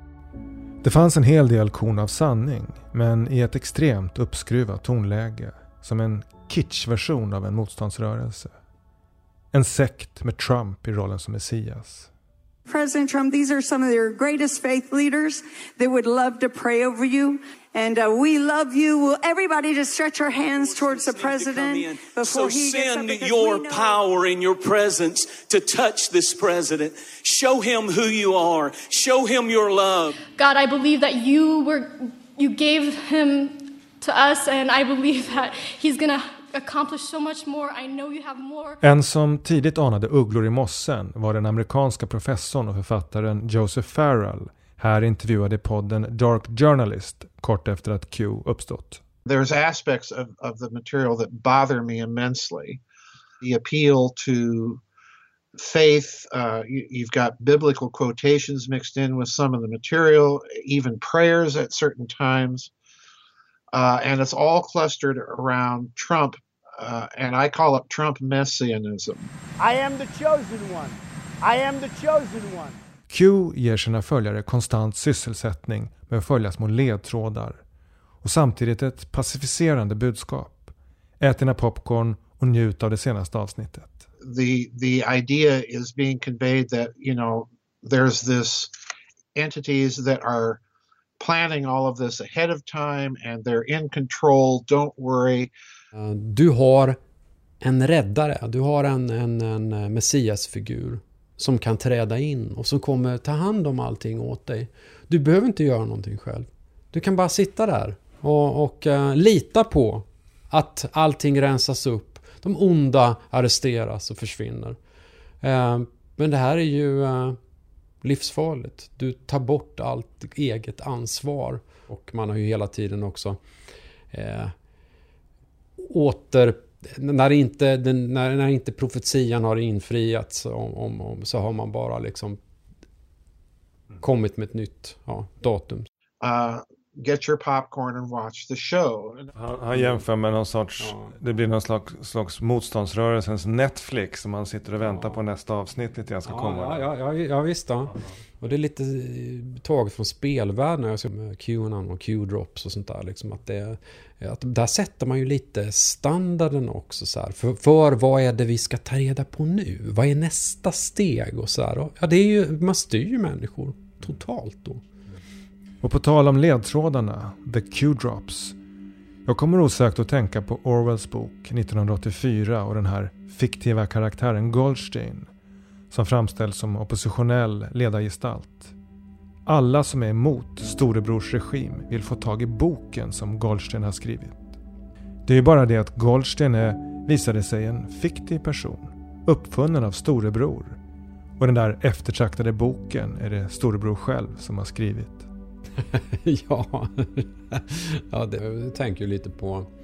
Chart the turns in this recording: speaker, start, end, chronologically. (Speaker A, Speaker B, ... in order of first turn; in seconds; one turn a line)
Speaker A: 0.8-8.5
Speaker A: 9.5-12.1
Speaker B: 12.7-24.1
Speaker C: 20.6-30.2
Speaker D: 30.3-38.8
Speaker A: 38.8-49.0
Speaker E: 49.2-52.8
Speaker E: 53.4-54.8
Speaker E: 55.5-62.7
Speaker E: 63.7-69.3
Speaker F: 69.6-72.8
Speaker A: 73.1-77.6
Speaker A: 78.2-84.0
Speaker E: 84.2-88.7
Speaker E: 89.3-90.6
Speaker E: 91.2-95.5
Speaker G: 96.0-97.0
Speaker G: 97.6-114.8
Speaker G: 115.4-117.4
Speaker G: 118.0-123.4
Speaker G: 124.1-124.5
Speaker G: 125.8-132.4
Speaker G: 134.0-135.9
Speaker E: 136.2-139.3
Speaker A: 139.3-146.9
Speaker G: 140.8-141.1
Speaker G: 146.2-164.8
Speaker A: 165.8-168.6
Speaker A: 169.2-175.3
Speaker A: 175.9-178.7
Speaker A: 179.4-184.6
Speaker A: 185.2-190.8
Speaker A: 191.4-195.3
Speaker G: 195.9-199.7